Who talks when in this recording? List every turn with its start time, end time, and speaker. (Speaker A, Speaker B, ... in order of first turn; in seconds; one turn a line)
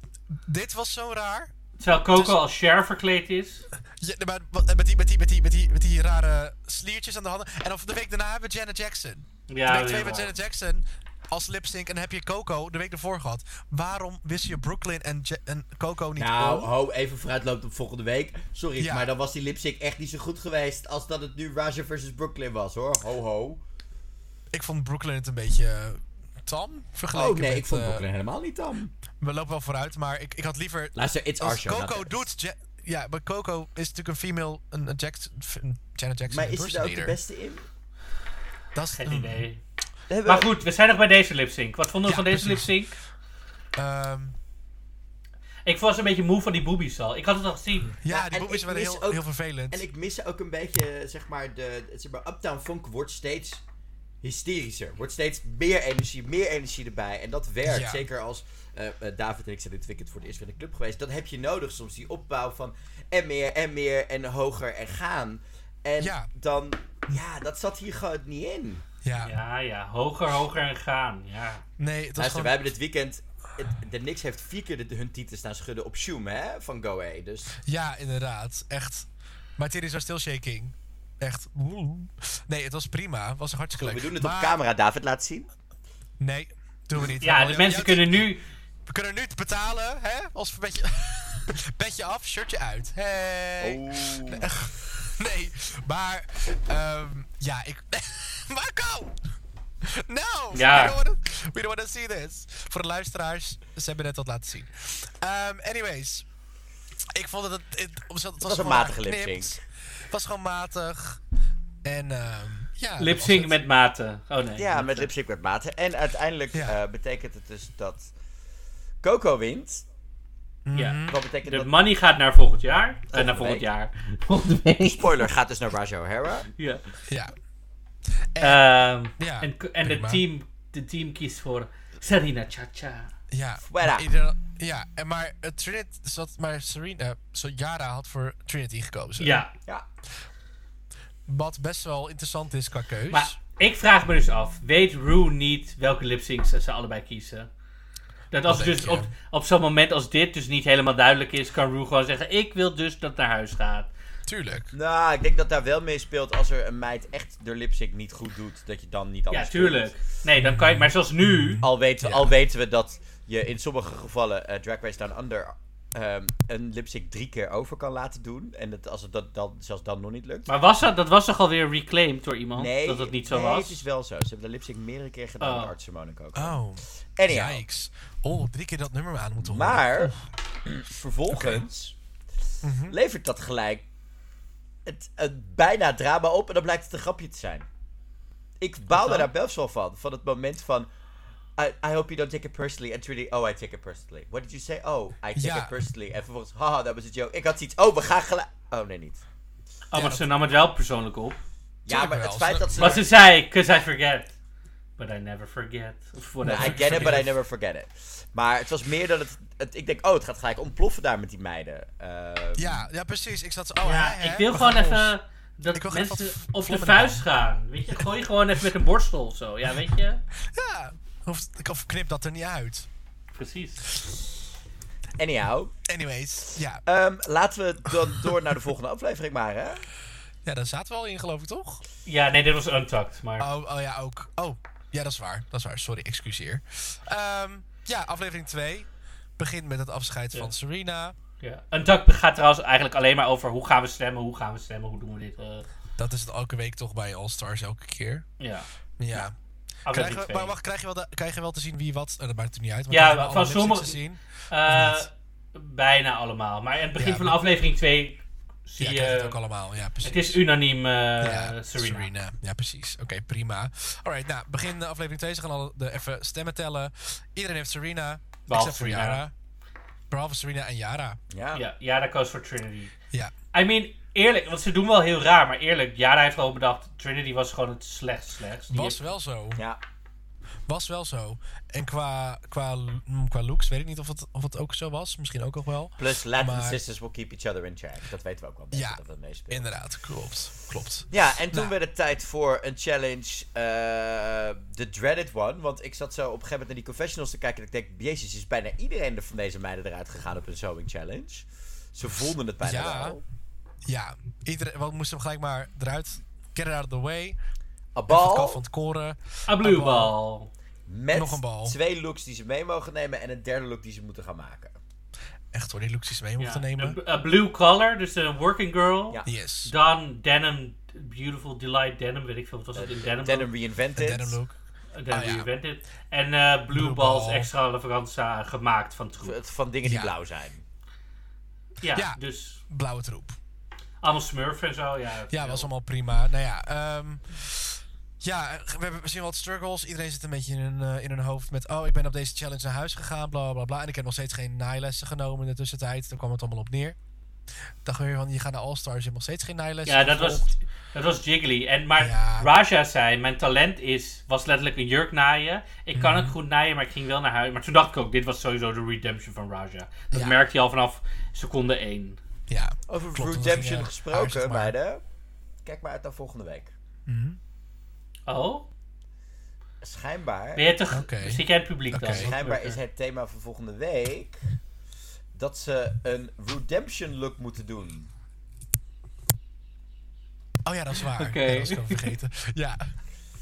Speaker A: 0.3-1.5
Speaker B: 1.8-3.6
Speaker A: 3.9-16.7
Speaker B: 9.5-10.3
Speaker C: 16.2-23.6
Speaker A: 18.8-19.1
Speaker A: 24.5-28.0
Speaker C: 27.1-28.9
Speaker A: 29.2-37.1
Speaker C: 30.9-32.3
Speaker C: 36.3-37.6
Speaker A: 38.7-39.4
Speaker B: 39.0-39.6
Speaker C: 40.1-40.5
Speaker B: 40.2-43.0
Speaker A: 42.0-42.8
Speaker A: 43.8-44.4
Speaker B: 45.6-48.0
Speaker A: 48.0-49.8
Speaker C: 48.1-53.6
Speaker C: 54.2-68.8
Speaker A: 57.6-58.0
Speaker A: 66.0-66.3
Speaker A: 69.0-69.3
Speaker B: 69.2-71.6
Speaker A: 71.8-72.7
Speaker C: 72.2-77.5
Speaker A: 77.7-84.6
Speaker C: 83.8-85.5
Speaker A: 86.2-88.3
Speaker B: 87.2-88.4
Speaker A: 88.8-99.2
Speaker C: 93.6-94.5
Speaker A: 99.8-106.2
Speaker B: 100.5-101.0
Speaker A: 107.1-111.2
Speaker C: 108.4-109.5
Speaker A: 111.8-113.6
Speaker B: 113.0-115.1
Speaker C: 114.6-118.1
Speaker C: 119.0-119.8
Speaker A: 120.7-121.2
Speaker B: 120.7-125.0
Speaker C: 121.1-121.7
Speaker C: 123.1-123.7
Speaker C: 124.7-126.5
Speaker B: 126.6-126.8
Speaker A: 127.1-127.3
Speaker A: 128.3-128.6
Speaker B: 128.4-133.1
Speaker A: 129.2-130.2
Speaker A: 133.3-139.4
Speaker C: 133.6-134.1
Speaker B: 139.2-139.5
Speaker A: 141.2-143.3
Speaker B: 143.1-147.5
Speaker B: 148.3-153.9
Speaker A: 148.4-149.1
Speaker A: 154.2-154.7
Speaker C: 154.7-159.9
Speaker B: 159.3-161.6
Speaker A: 160.4-162.3
Speaker C: 161.6-170.5
Speaker B: 170.5-173.8
Speaker C: 172.5-176.6
Speaker B: 175.4-175.7
Speaker A: 176.3-180.1
Speaker C: 177.2-177.6
Speaker C: 179.4-181.9
Speaker A: 181.3-181.6
Speaker A: 182.6-182.9
Speaker C: 182.9-183.8
Speaker C: 184.8-187.7
Speaker C: 188.6-190.9
Speaker C: 191.6-199.2
Speaker A: 195.3-195.7
Speaker B: 199.9-201.4
Speaker A: 199.9-200.3
Speaker C: 201.8-203.1
Speaker A: 201.9-203.0
Speaker B: 202.8-204.3
Speaker B: 205.0-207.2
Speaker C: 206.4-212.8
Speaker A: 206.5-207.3
Speaker A: 212.6-215.1
Speaker B: 213.8-220.2
Speaker A: 215.7-217.2
Speaker A: 220.4-222.9
Speaker B: 223.3-223.8
Speaker C: 225.2-225.7
Speaker A: 225.8-226.8
Speaker C: 226.8-229.8
Speaker A: 227.9-228.4
Speaker A: 230.4-231.8
Speaker B: 232.1-233.5
Speaker A: 233.4-241.1
Speaker B: 241.4-245.7
Speaker A: 246.0-248.2
Speaker B: 248.4-249.2
Speaker A: 249.0-249.3
Speaker B: 249.8-250.5
Speaker A: 249.9-255.0
Speaker B: 252.9-259.4
Speaker A: 256.9-257.4
Speaker A: 258.8-260.4
Speaker B: 260.0-262.1
Speaker A: 261.2-269.3
Speaker B: 268.5-269.2
Speaker A: 270.1-271.2
Speaker C: 271.3-271.6
Speaker B: 271.5-272.9
Speaker B: 273.5-279.1
Speaker A: 278.7-279.6
Speaker A: 280.7-286.8
Speaker C: 286.0-289.7
Speaker A: 288.7-291.7
Speaker C: 291.1-303.2
Speaker A: 302.6-303.2
Speaker A: 303.8-307.4
Speaker C: 307.9-308.6
Speaker A: 308.1-310.1
Speaker B: 309.5-310.5
Speaker C: 310.9-314.8
Speaker A: 311.1-311.8
Speaker A: 315.5-317.0
Speaker B: 316.4-323.5
Speaker A: 319.2-319.7
Speaker C: 322.7-324.4
Speaker A: 323.9-324.5
Speaker B: 324.9-329.4
Speaker A: 325.1-325.5
Speaker A: 326.7-327.5
Speaker C: 329.2-330.6
Speaker A: 329.8-330.1
Speaker B: 331.8-332.6
Speaker A: 331.9-333.4
Speaker B: 334.0-335.7
Speaker A: 335.3-346.9
Speaker A: 347.8-350.5
Speaker B: 349.9-362.2
Speaker A: 352.0-352.5
Speaker A: 355.9-356.4
Speaker A: 360.1-360.4
Speaker A: 362.5-364.7
Speaker C: 362.9-365.0
Speaker C: 365.6-366.7
Speaker A: 367.1-367.4
Speaker B: 368.3-368.7
Speaker C: 369.8-370.6
Speaker B: 370.6-372.8
Speaker A: 370.9-372.3
Speaker C: 372.1-374.4
Speaker C: 375.3-378.1
Speaker A: 380.6-382.9
Speaker B: 381.1-382.1